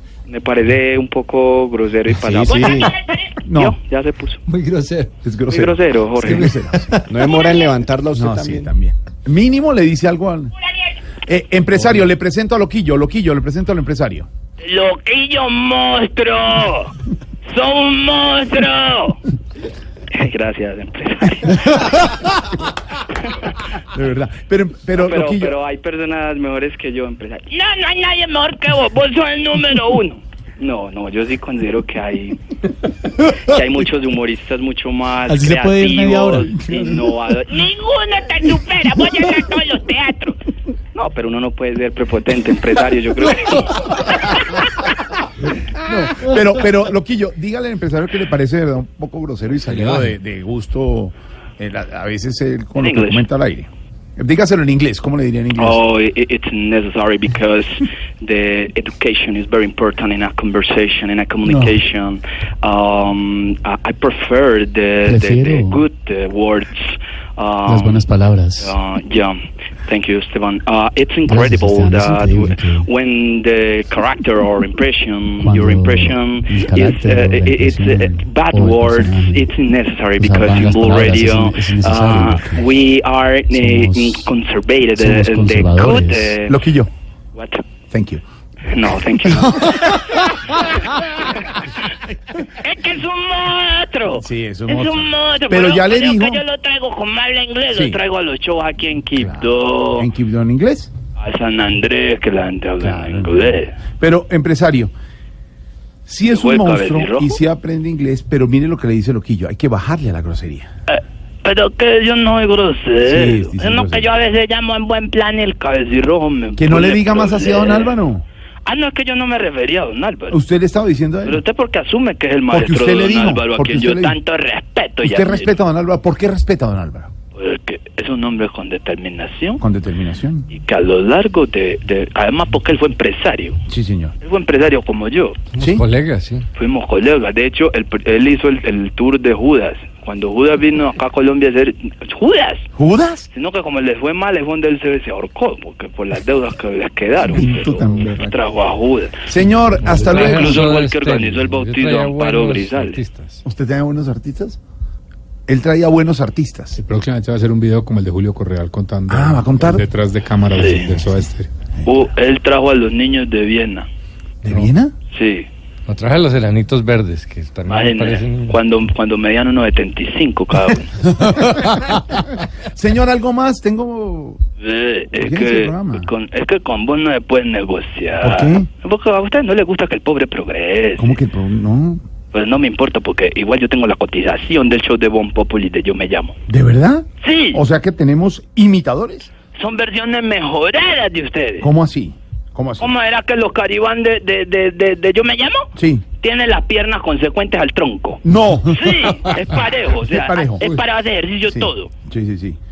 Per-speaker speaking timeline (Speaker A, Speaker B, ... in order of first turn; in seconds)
Speaker A: 0.3-4.4, 5.5-6.5, 7.3-7.7, 14.6-16.9, 17.5-19.2, 20.1-22.1, 24.9-32.6, 33.2-40.4, 40.9-44.7, 52.8-53.3, 55.6-68.0, 68.6-86.6, 87.3-87.6, 88.7-90.6, 92.6-100.1, 101.2-103.8, 106.3-107.4, 110.9-118.0, 118.7-120.4, 121.2-125.6, 127.3-129.6, 130.5-133.6, 134.2-135.4, 136.6-142.7, 143.3-149.2, 149.9-153.0, 160.5-161.0, 161.8-163.9, 165.1-165.5, 167.7-170.9, 174.6-181.2, 182.3-186.4, 187.2-187.6, 189.6-191.7, 192.8-198.2, 198.7-201.9
Speaker B: 2.1-2.9, 7.1-8.7
Speaker C: 3.5-3.8, 5.2-7.0, 8.1-10.5, 11.2-14.3, 23.8-25.6, 45.8-55.8, 86.5-86.9, 87.9-88.2, 89.2-90.8, 94.1-96.4, 97.7-98.0, 99.2-100.9, 102.8-104.9, 106.1-110.7, 113.0-114.1, 116.6-118.2, 120.3-121.4, 122.5-124.2, 125.0-127.1, 129.6-130.5, 133.7-134.2, 135.6-135.8, 142.8-143.3, 147.2-148.4, 149.3-150.7, 153.4-154.6, 155.5-156.8, 159.1-159.9, 164.4-164.9, 171.1-174.4, 175.1-176.1, 178.2-178.7, 181.0-182.0, 186.5-189.3, 191.6-192.9, 195.8-196.1, 198.2-198.9, 200.0-200.7, 201.5-202.6
Speaker D: 4.5-5.1, 6.2-7.1, 49.6-50.1, 135.5-136.5, 150.1-153.4, 165.9-168.6
Speaker E: 35.3-36.6, 61.4-61.8, 65.0-65.8, 67.7-68.8, 71.3-72.9, 75.4-79.5, 80.2-82.7, 83.5-84.3, 85.0-86.3
Speaker F: 149.7-150.3, 156.8-161.5